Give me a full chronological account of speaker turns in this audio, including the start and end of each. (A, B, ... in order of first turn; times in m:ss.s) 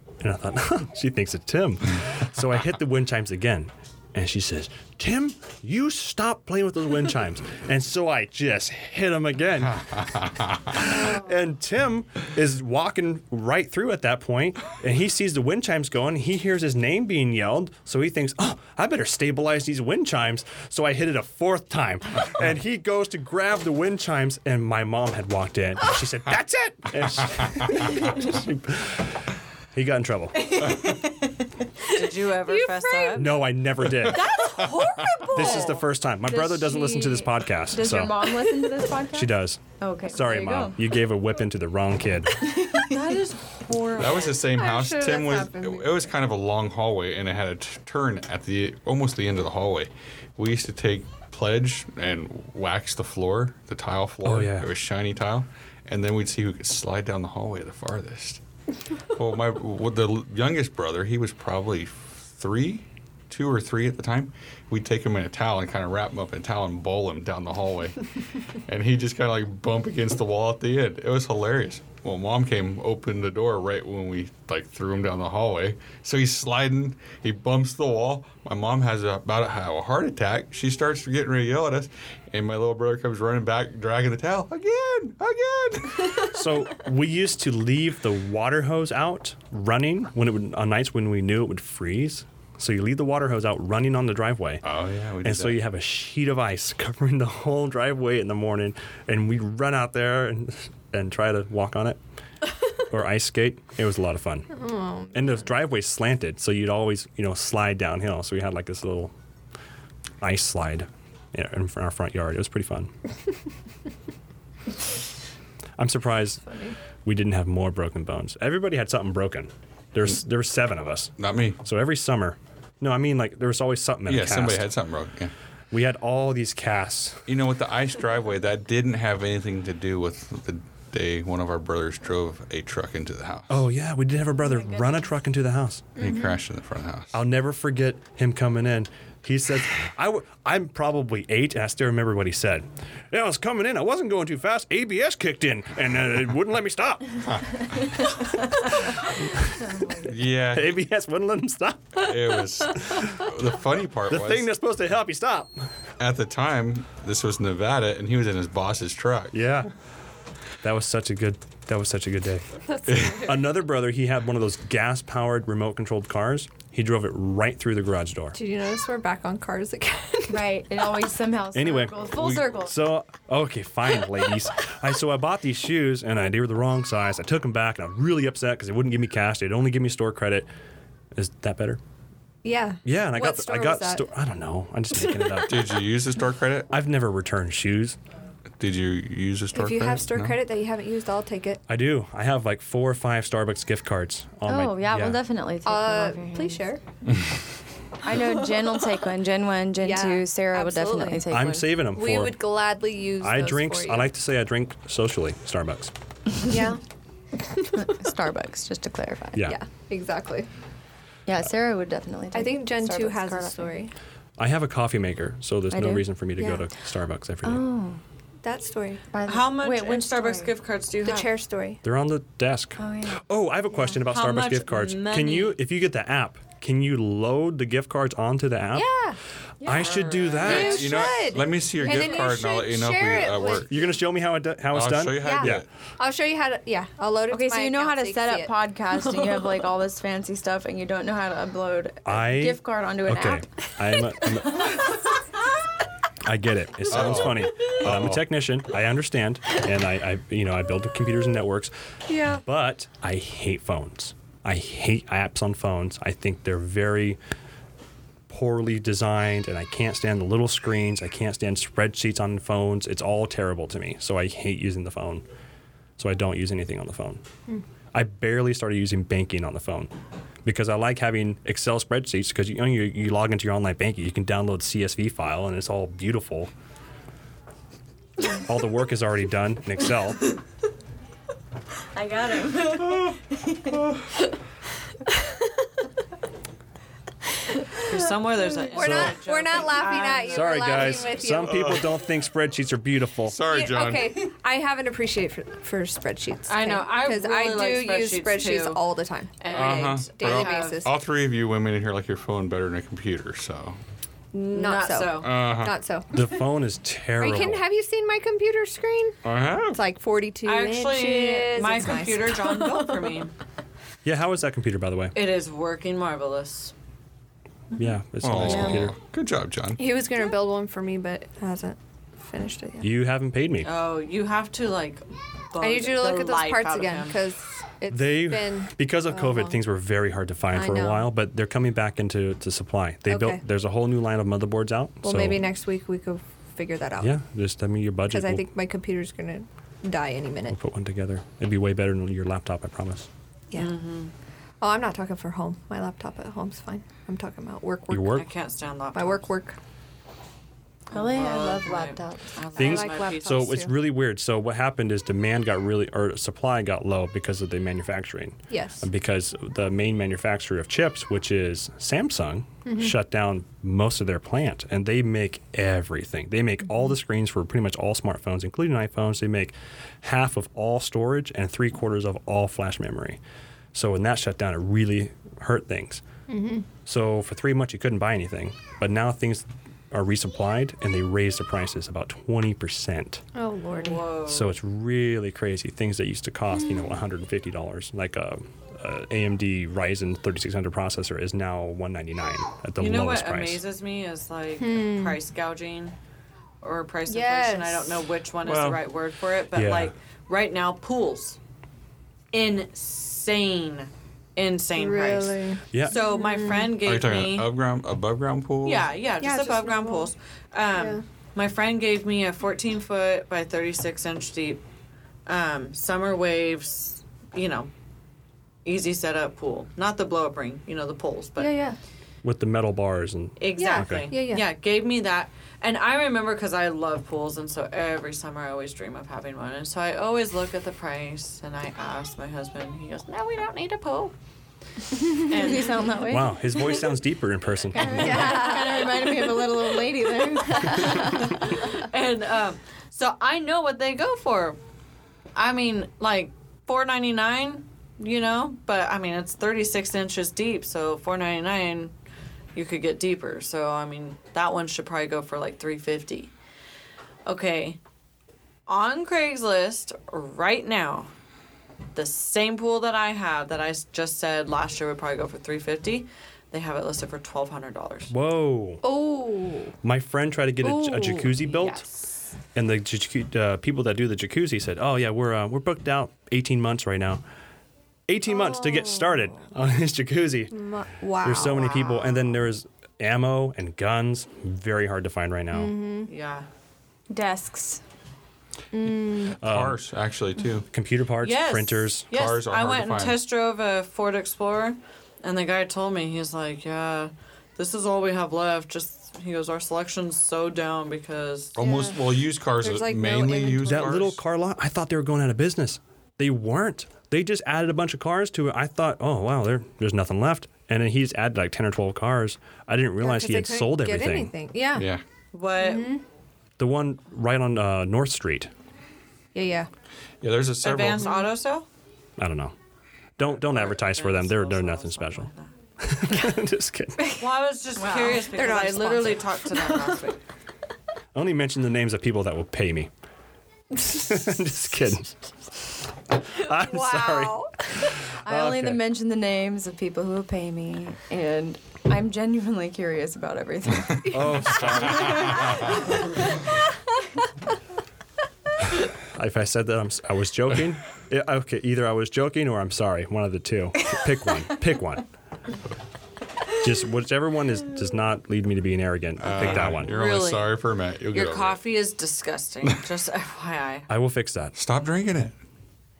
0:00.2-0:29.2 A
0:29.7-0:30.6 A
0:30.4-0:31.5 B
0:31.9-0:35.8 C
0:32.4-0:33.3 D
0:33.1-0:34.3 A
0:34.0-0:35.2 E
0:35.2-0:38.6 A
0:36.2-0:40.8 B
0:39.1-0:42.5 A
0:42.4-0:43.0 B
0:42.8-0:44.5 C
0:43.9-0:58.4 E
0:44.5-0:46.1 D
0:54.2-0:54.7 A
0:59.1-1:08.0 E
1:08.7-1:26.3 E
1:26.2-1:34.6 A
1:34.6-1:35.6 E
1:35.2-1:42.0 A
1:42.8-1:44.6 A
1:44.5-1:45.5 D
1:45.1-1:49.1 A
1:50.2-1:52.9 A
1:55.8-2:04.7 A
1:56.4-1:56.8 D
2:01.2-2:01.6 E
2:04.0-2:05.3 E
2:05.7-2:07.2 A
2:07.3-2:13.5 E
2:13.5-2:16.0 A
2:14.4-2:15.1 B
2:16.0-2:17.2 E
2:16.0-2:16.4 D
2:17.1-2:30.0 A
2:27.2-2:27.6 E
2:29.9-2:30.8 E
2:30.5-2:33.3 A
2:32.0-2:34.5 E
2:34.1-2:35.5 A
2:36.0-2:39.5 E
2:39.3-2:39.7 A
2:40.6-2:42.5 A
2:42.8-2:43.3 D
2:42.8-2:43.2 E
2:43.1-2:48.4 A
2:48.3-2:50.5 D
2:50.3-2:52.8 B
2:51.5-3:00.5 A
3:01.1-3:01.8 A
3:02.4-3:04.0 D
3:02.8-3:05.8 A
3:05.4-3:06.7 E
3:06.7-3:08.0 A
3:08.6-3:10.4 E
3:09.5-3:11.6 D
3:11.7-3:15.2 A
3:14.4-3:16.6 B
3:15.6-3:16.8 D
3:18.0-3:21.7 B
3:19.8-3:21.3 D
3:21.3-3:22.5 A
3:21.9-3:24.1 D
3:23.2-3:25.9 A
3:26.4-3:26.8 D
3:27.4-3:28.0 D
3:27.7-3:29.4 B
3:29.4-3:30.5 D
3:31.2-3:33.7 B
3:32.3-3:33.9 D
3:34.4-3:37.6 A
3:35.7-3:36.0 B
3:36.4-3:36.7 D
3:37.4-3:38.0 B
3:38.4-3:39.0 D
3:39.1-3:40.5 B
3:39.2-3:41.3 C
3:41.0-3:41.8 D
3:41.8-3:48.9 A
3:42.8-3:43.2 B
3:44.0-3:45.6 C
3:48.7-3:49.2 D
3:49.6-3:50.8 B
3:49.6-3:51.0 A
3:50.4-3:53.6 D
3:50.4-3:53.7 E
3:53.7-3:55.6 A
3:54.7-3:55.6 E
3:55.2-3:58.5 D
3:57.3-4:03.4 B
4:02.0-4:04.9 A
4:06.2-4:11.7 A
4:06.9-4:08.3 E
4:12.1-4:12.4 D
4:12.4-4:17.2 A
4:18.3-4:25.2 A
4:26.0-4:27.2 A
4:27.9-4:29.9 A
4:30.4-4:36.5 A
4:38.2-4:40.4 A
4:41.9-4:43.8 B
4:42.8-4:43.1 E
4:47.8-4:51.1 C
4:48.7-4:51.8 D
4:48.8-4:49.2 A
4:50.2-4:53.4 A
4:51.4-4:51.9 E
4:53.2-4:54.2 E
4:53.5-5:00.9 D
4:56.5-4:58.8 C
4:59.4-5:00.9 C
4:59.5-5:03.8 E
5:04.3-5:06.2 D
5:04.5-5:05.3 C
5:05.2-5:05.7 E
5:06.1-5:07.6 A
5:07.2-5:09.2 D
5:09.2-5:09.8 E
5:09.7-5:13.2 D
5:10.4-5:13.3 C
5:14.0-5:15.1 A
5:15.1-5:16.7 C
5:17.7-5:18.9 A
5:18.2-5:19.8 E
5:18.5-5:18.8 D
5:19.8-5:22.9 D
5:22.8-5:23.7 A
5:23.6-5:27.2 C
5:25.6-5:29.6 D
5:27.9-5:35.4 A
5:30.5-5:31.1 D
5:33.1-5:33.4 D
5:35.0-5:37.1 D
5:37.0-5:38.4 A
5:38.1-5:40.6 D
5:40.5-5:43.1 A
5:43.5-5:44.1 C
5:44.6-5:48.2 D
5:47.9-5:48.2 A
5:48.2-5:49.3 C
5:48.9-5:49.6 D
5:50.9-5:52.4 B
5:50.9-5:53.6 C
5:52.6-5:53.7 D
5:52.6-6:13.2 A
5:58.5-5:58.9 D
6:02.6-6:02.9 D
6:13.7-6:16.0 A
6:16.3-6:16.7 D
6:16.8-6:23.2 A
6:23.3-6:24.0 D
6:23.7-6:24.6 C
6:24.3-6:33.6 A
6:32.8-6:36.0 C
6:34.6-6:35.2 D
6:36.6-6:41.4 C
6:37.1-6:38.0 D
6:38.4-6:38.8 E
6:39.5-6:39.9 A
6:42.3-6:47.5 C
6:44.8-6:46.7 D
6:46.8-6:48.9 E
6:48.6-6:54.6 C
6:49.2-6:50.1 D
6:50.7-6:51.0 D
6:55.2-6:57.7 C
6:58.6-7:01.6 C
7:01.4-7:01.8 D
7:02.2-7:04.1 A
7:03.4-7:14.1 C
7:03.6-7:04.4 D
7:15.1-7:16.0 C
7:15.1-7:16.6 B
7:16.0-7:18.5 A
7:17.7-7:21.3 B
7:18.0-7:18.8 C
7:18.0-7:18.8 D
7:20.5-7:24.6 C
7:25.4-7:31.9 C
7:32.5-7:36.3 C
7:37.2-7:37.8 C
7:38.7-7:41.1 C
7:41.9-7:48.1 C
7:48.1-7:48.8 A
7:48.8-7:49.7 D
7:49.8-7:51.8 A
7:50.6-7:51.4 D
7:51.4-7:52.1 C
7:52.5-7:57.2 A
7:58.1-8:00.5 A
7:58.3-7:59.4 D
8:00.5-8:01.6 D
8:01.2-8:05.7 A
8:01.3-8:02.4 C
8:05.5-8:06.1 D
8:06.1-8:06.5 C
8:07.1-8:07.8 B
8:08.7-8:09.4 D
8:09.3-8:10.7 E
8:09.4-8:09.8 A
8:10.7-8:12.1 A
8:11.2-8:21.6 C
8:12.1-8:13.2 E
8:21.6-8:24.2 E
8:21.6-8:22.0 D
8:22.6-8:23.9 D
8:23.6-8:34.3 A
8:33.0-8:34.9 D
8:34.7-8:35.0 E
8:35.3-8:36.0 C
8:35.6-8:36.0 D
8:36.6-8:38.5 A
8:39.3-8:39.7 D
8:40.2-8:41.2 E
8:40.6-8:41.6 C
8:42.2-8:42.5 A
8:43.2-8:45.3 A
8:43.4-8:45.5 C
8:45.8-8:47.1 A
8:47.1-8:50.2 C
8:47.8-8:48.8 B
8:48.3-8:50.0 D
8:51.1-8:52.9 A
8:53.7-8:55.2 A
8:56.3-8:58.8 A
8:56.4-8:58.0 D
8:58.2-9:04.5 B
9:04.1-9:05.7 A
9:04.5-9:05.7 E
9:04.6-9:05.6 D
9:05.2-9:05.6 B
9:09.1-9:15.1 A
9:16.5-9:19.9 A
9:19.2-9:21.6 E
9:19.3-9:20.6 C
9:21.1-9:23.9 C
9:23.9-9:24.5 A
9:24.5-9:25.4 E